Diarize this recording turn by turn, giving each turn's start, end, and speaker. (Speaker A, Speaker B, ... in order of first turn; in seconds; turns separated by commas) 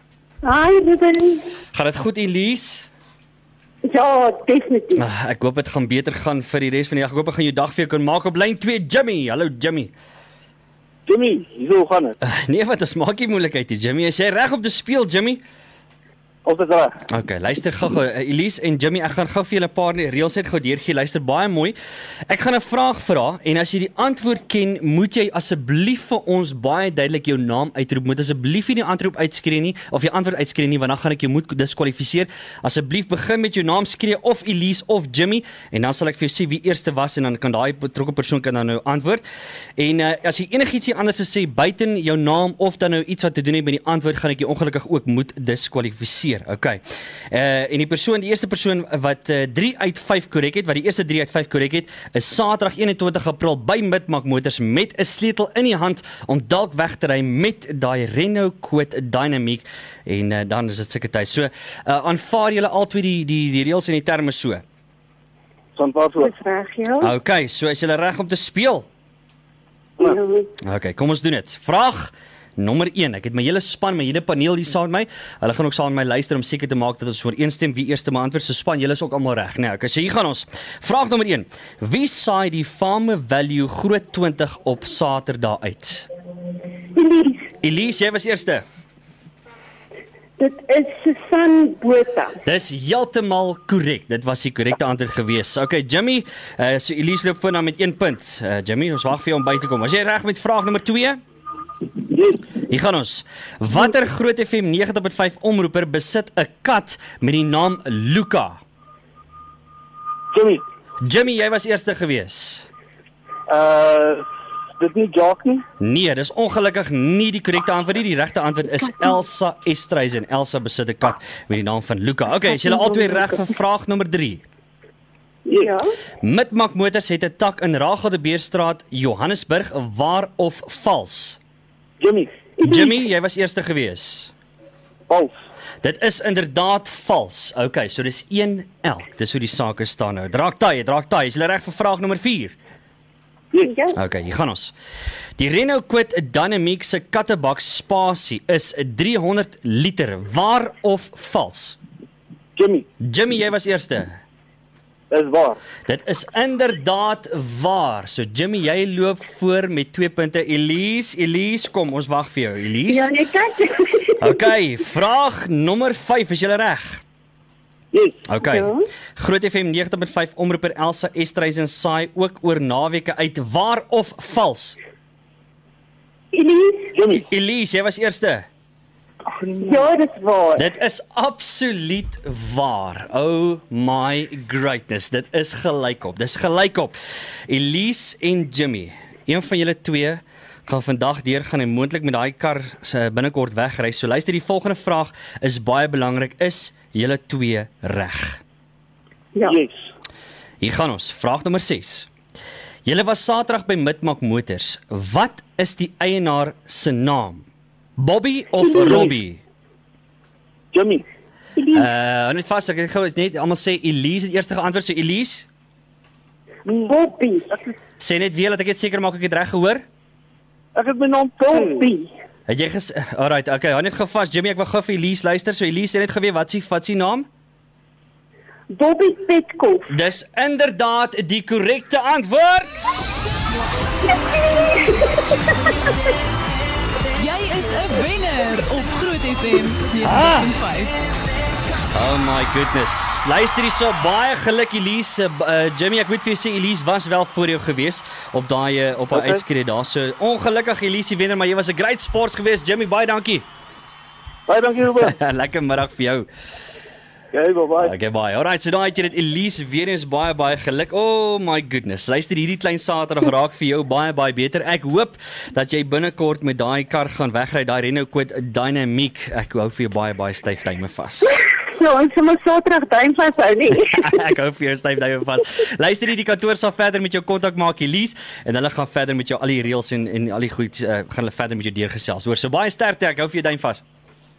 Speaker A: 0.4-1.5, Speaker B: 1.7-2.9, Speaker A: 3.9-5.1, Speaker B: 5.0-9.9, Speaker C: 11.1-12.2, Speaker B: 12.2-15.4, Speaker C: 16.4-17.0, Speaker B: 17.1-21.8, Speaker B: 22.3-39.2, Speaker B: 39.8-64.6, Speaker C: 65.8-66.3, Speaker A: 66.2-67.1, Speaker B: 67.0-68.9, Speaker A: 70.0-70.5, Speaker B: 70.6-86.1, Speaker A: 87.0-87.5, Speaker B: 87.6-88.6, Speaker A: 90.4-92.4, Speaker B: 92.4-101.2, Speaker C: 102.1-102.4, Speaker B: 102.7-108.6, Speaker C: 110.3-110.6, Speaker B: 111.0-112.7, Speaker C: 113.5-114.3, Speaker C: 114.8-115.6, Speaker B: 115.8-124.4, Speaker A: 125.5-125.8, Speaker B: 126.2-131.4, Speaker C: 132.0-132.3, Speaker A: 132.6-133.0, Speaker B: 132.6-134.3, Speaker B: 135.8-142.6, Speaker A: 143.6-144.0, Speaker B: 143.9-144.7, Speaker B: 145.4-151.8, Speaker C: 152.6-152.9, Speaker B: 153.0-154.2, Speaker C: 155.1-155.6, Speaker B: 155.9-163.1, Speaker A: 162.9-164.4, Speaker B: 164.2-167.0, Speaker C: 167.9-168.2, Speaker B: 168.3-174.8, Speaker A: 168.4-168.8, Speaker A: 176.3-177.0, Speaker C: 176.9-177.2, Speaker B: 177.1-178.4, Speaker A: 179.6-180.7, Speaker B: 180.6-186.9, Speaker B: 187.5-198.4, Speaker C: 199.5-199.7, Speaker B: 200.6-202.1, Speaker B: 202.8-207.4, Speaker B: 208.0-209.4, Speaker A: 208.6-209.1, Speaker C: 210.7-211.0, Speaker A: 211.6-211.9, Speaker B: 211.7-215.5, Speaker A: 216.7-217.6, Speaker B: 218.0-219.8, Speaker C: 220.8-221.9, Speaker A: 221.5-222.1, Speaker B: 222.5-227.3, Speaker A: 228.7-229.9, Speaker B: 229.9-233.2, Speaker A: 234.3-235.2, Speaker D: 237.2-240.9, Speaker B: 240.0-240.5, Speaker B: 241.9-253.5, Speaker C: 249.1-249.4, Speaker C: 254.5-255.2, Speaker B: 255.0-256.3, Speaker C: 257.3-257.9, Speaker B: 257.8-271.4, Speaker A: 271.5-274.2, Speaker B: 273.8-283.8